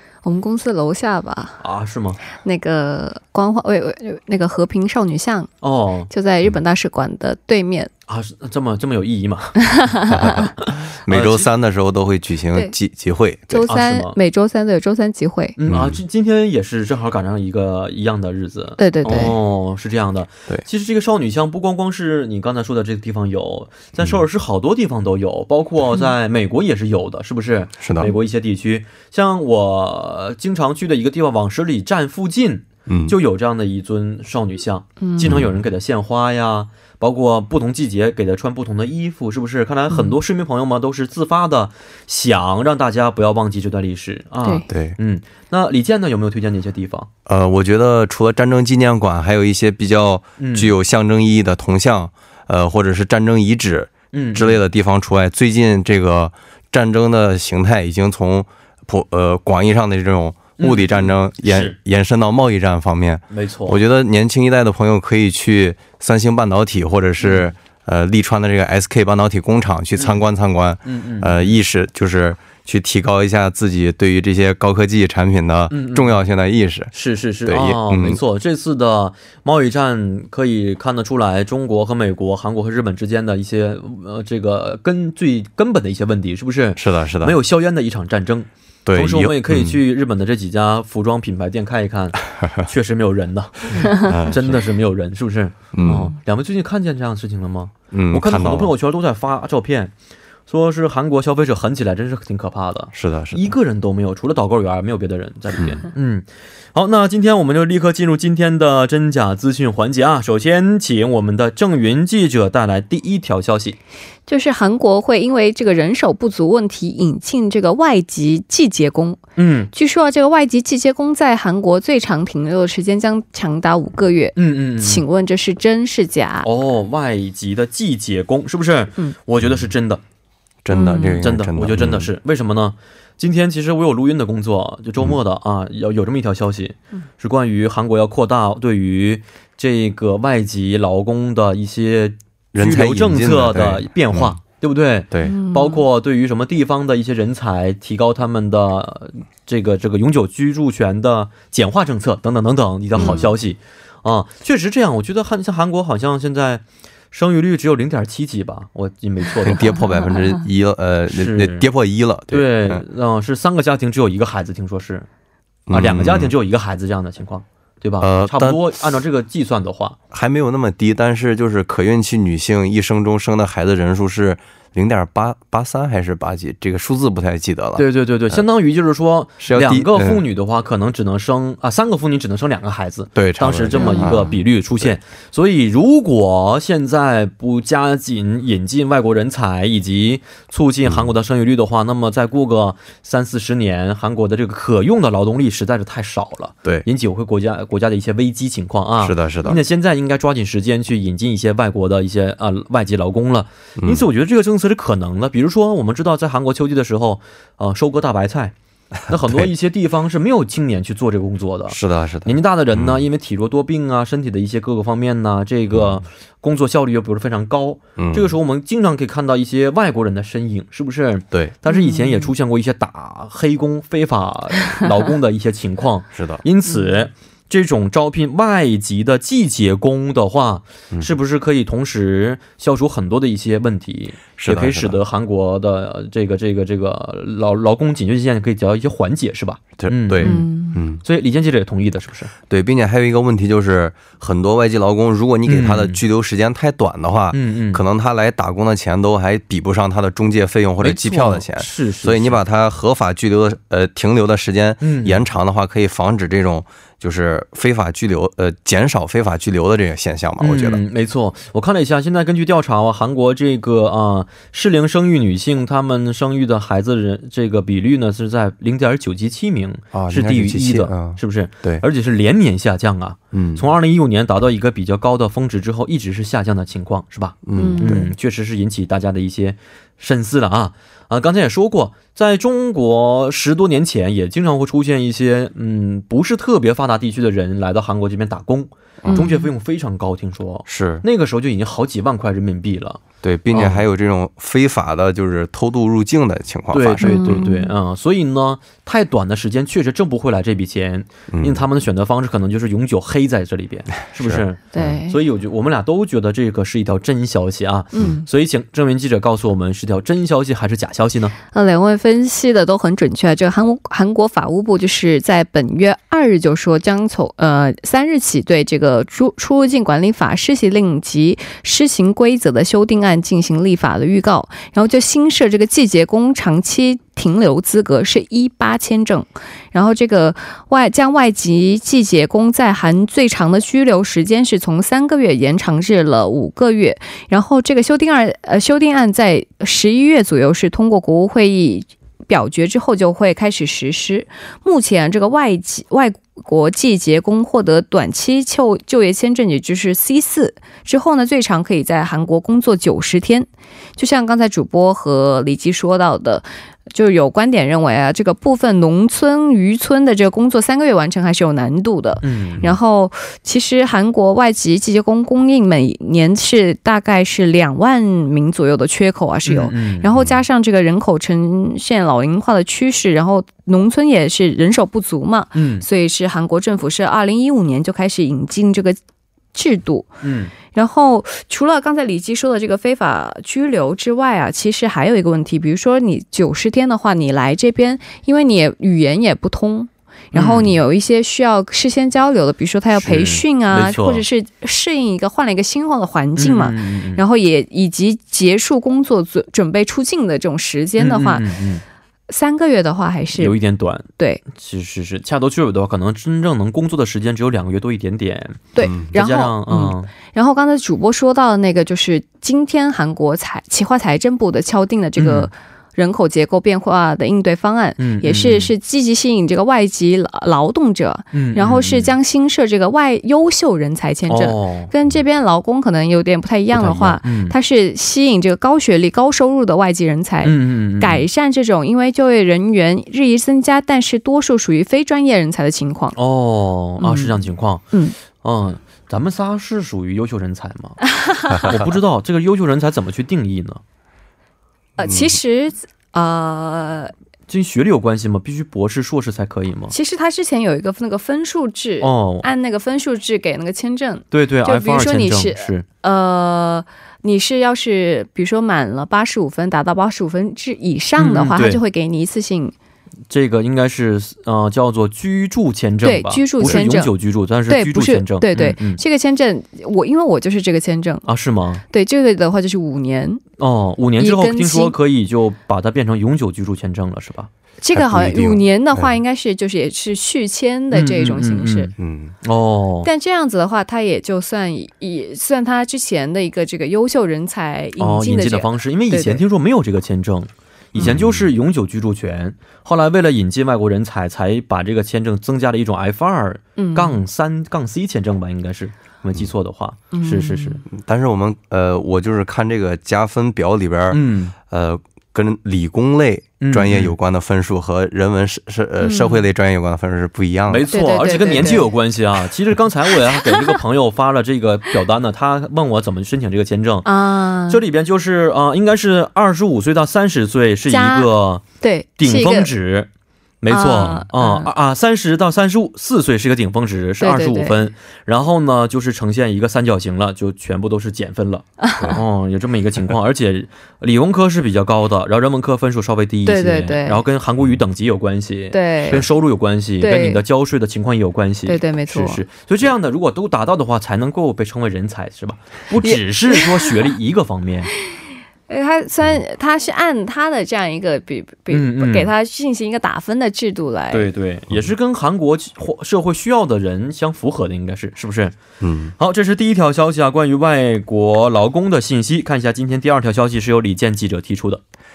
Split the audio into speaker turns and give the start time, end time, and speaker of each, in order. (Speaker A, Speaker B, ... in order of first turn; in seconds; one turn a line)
Speaker A: 0.2-1.6
Speaker B: 1.6-2.2
Speaker A: 2.4-5.5
Speaker B: 5.6-6.1
Speaker A: 6.1-7.9
Speaker B: 8.1-9.7
Speaker A: 9.6-10.5
Speaker C: 10.1-13.7
Speaker B: 10.6-11.5
Speaker A: 13.5-15.6
Speaker B: 13.6-14.2
Speaker B: 15.6-47.1
Speaker C: 15.7-16.0
Speaker A: 18.8-19.3
Speaker C: 27.8-28.1
Speaker C: 32.9-33.1
Speaker A: 35.0-35.3
Speaker C: 35.2-35.5
Speaker A: 39.9-40.1
Speaker C: 44.7-45.0
Speaker C: 47.3-76.9
Speaker B: 50.4-50.7
Speaker B: 54.1-54.6
Speaker B: 60.6-61.8
Speaker B: 63.3-63.8
Speaker B: 67.2-67.5
Speaker B: 70.0-70.2
Speaker B: 70.8-71.5
Speaker B: 75.7-76.2
Speaker B: 76.9-99.9
Speaker C: 77.5-78.2
Speaker C: 86.8-87.3
Speaker C: 88.8-89.8
Speaker C: 92.4-92.6
Speaker C: 93.8-94.6
Speaker C: 95.7-96.1
Speaker C: 97.9-98.7
Speaker B: 100.5-113.8
Speaker C: 102.9-103.5
Speaker A: 114.3-119.2
Speaker B: 119.4-119.7
Speaker A: 119.7-126.5
Speaker B: 124.3-125.0
Speaker B: 126.4-130.0
Speaker C: 130.6-132.1
Speaker A: 130.7-131.2
Speaker B: 130.9-159.7
Speaker C: 142.5-144.4
Speaker A: 145.2-145.8
Speaker C: 152.9-153.2
Speaker A: 153.0-153.3
Speaker C: 159.4-162.8
Speaker B: 161.1-161.7
Speaker B: 162.3-165.1
Speaker C: 165.7-166.3
Speaker B: 165.7-170.0
Speaker C: 168.0-168.7
Speaker C: 170.1-178.4
Speaker B: 177.8-208.5
Speaker C: 179.4-180.2
Speaker C: 183.2-184.9
Speaker A: 183.8-184.2
Speaker C: 190.8-191.1
Speaker C: 199.0-199.6
Speaker C: 203.8-204.1
Speaker C: 209.1-209.5
Speaker B: 209.1-240.5
Speaker C: 211.7-213.1
Speaker C: 218.0-218.3
Speaker A: 221.7-222.3
Speaker C: 226.1-226.4
Speaker C: 234.4-235.0
Speaker C: 239.8-241.0
Speaker A: 240.2-240.8
Speaker B: 241.0-242.3
Speaker C: 242.5-260.8
Speaker B: 245.4-246.0
Speaker B: 247.3-247.8
Speaker B: 250.8-252.4
Speaker B: 254.8-255.2
Speaker B: 260.4-293.8
Speaker C: 269.9-271.8
Speaker C: 273.3-273.6
Speaker C: 277.4-278.0
Speaker A: 277.5-278.1
Speaker C: 289.0-289.3
Speaker A: 289.1-289.5
Speaker C: 290.7-291.0
Speaker C: 293.2-297.4
Speaker B: 296.7-311.3
Speaker A: 297.0-297.7
Speaker C: 301.3-301.6
Speaker C: 304.2-304.9
Speaker A: 304.7-305.2
Speaker A: 307.9-308.3
Speaker A: 311.5-379.0
Speaker B: 362.2-362.7
Speaker B: 369.4-370.1
Speaker B: 375.5-375.9
Speaker A: 379.5-401.4
Speaker B: 380.2-380.5
Speaker B: 390.3-390.7
Speaker B: 393.0-394.2
Speaker B: 396.4-397.2
Speaker B: 401.0-401.8
Speaker A: 402.3-403.6
Speaker B: 403.4-410.1
Speaker A: 408.7-436.1
Speaker C: 408.8-409.1
Speaker B: 415.1-415.5
Speaker B: 418.0-418.7
Speaker B: 421.3-422.1
Speaker B: 424.3-424.9
Speaker B: 426.7-427.5
Speaker B: 430.4-431.2
Speaker B: 436.1-437.9
Speaker A: 437.0-437.3
Speaker B: 438.4-441.1
Speaker A: 441.1-441.7
Speaker C: 441.5-441.8
Speaker B: 441.6-443.8
Speaker A: 445.0-447.1
Speaker B: 447.5-449.9
Speaker A: 449.9-462.7
Speaker B: 452.0-452.5
Speaker B: 454.3-455.9
Speaker B: 461.2-461.8
Speaker B: 463.3-469.0
Speaker A: 466.0-467.1
Speaker A: 467.7-471.2
Speaker B: 471.2-471.8
Speaker A: 471.9-473.4
Speaker B: 473.6-477.5
Speaker A: 474.2-474.9
Speaker A: 477.8-481.9
Speaker C: 477.9-479.1
Speaker B: 480.9-483.1
Speaker C: 482.0-482.3
Speaker A: 483.0-489.4
Speaker B: 488.0-500.8
Speaker C: 490.9-491.5
Speaker A: 496.8-497.2
Speaker A: 500.1-500.8
Speaker C: 500.9-510.9
Speaker B: 504.1-504.5
Speaker B: 506.6-507.1
Speaker A: 509.0-509.4
Speaker B: 510.7-517.1
Speaker A: 510.9-511.9
Speaker A: 513.3-513.8
Speaker A: 517.0-517.8
Speaker B: 517.7-521.6
Speaker A: 520.9-521.3
Speaker A: 521.8-522.7
Speaker B: 522.2-523.1
Speaker B: 523.6-547.9
Speaker A: 523.7-524.7
Speaker A: 527.2-527.8
Speaker A: 531.8-532.2
Speaker A: 536.5-537.2
Speaker A: 538.7-539.2
Speaker A: 540.0-540.4
Speaker A: 541.6-542.4
Speaker A: 546.0-546.9
Speaker A: 548.7-554.3
Speaker B: 551.7-552.3
Speaker B: 554.1-558.5
Speaker C: 558.8-559.1
Speaker B: 559.2-564.8